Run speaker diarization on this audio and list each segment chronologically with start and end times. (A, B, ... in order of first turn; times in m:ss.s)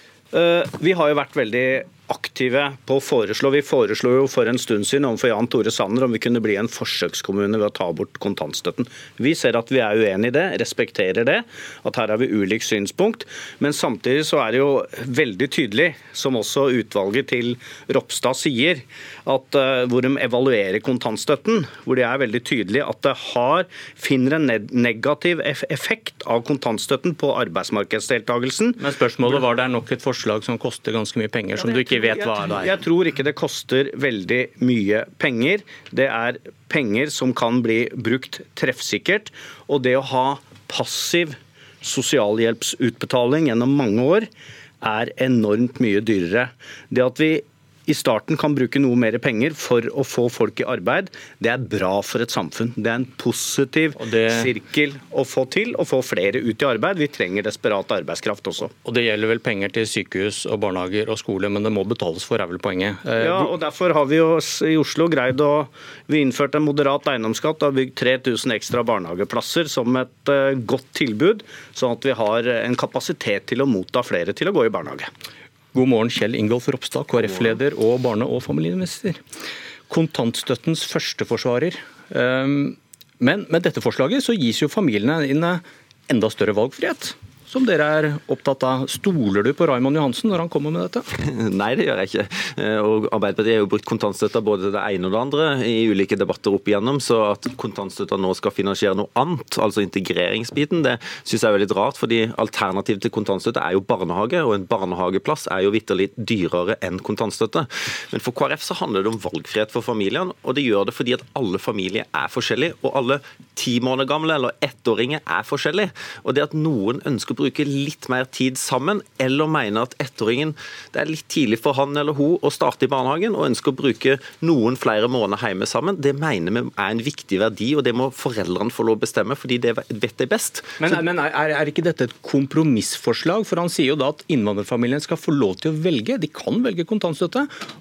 0:00.3-0:28.8 A
0:28.8-0:32.8 B
0:31.7-0:44.3 A
0:44.8-0:58.7 A
0:54.0-0:54.5 B
0:58.8-1:03.5 B
1:03.2-1:15.1 A
1:15.7-1:19.2 B
1:19.9-1:31.0 B
1:31.1-2:10.8 C
2:10.8-2:17.5 B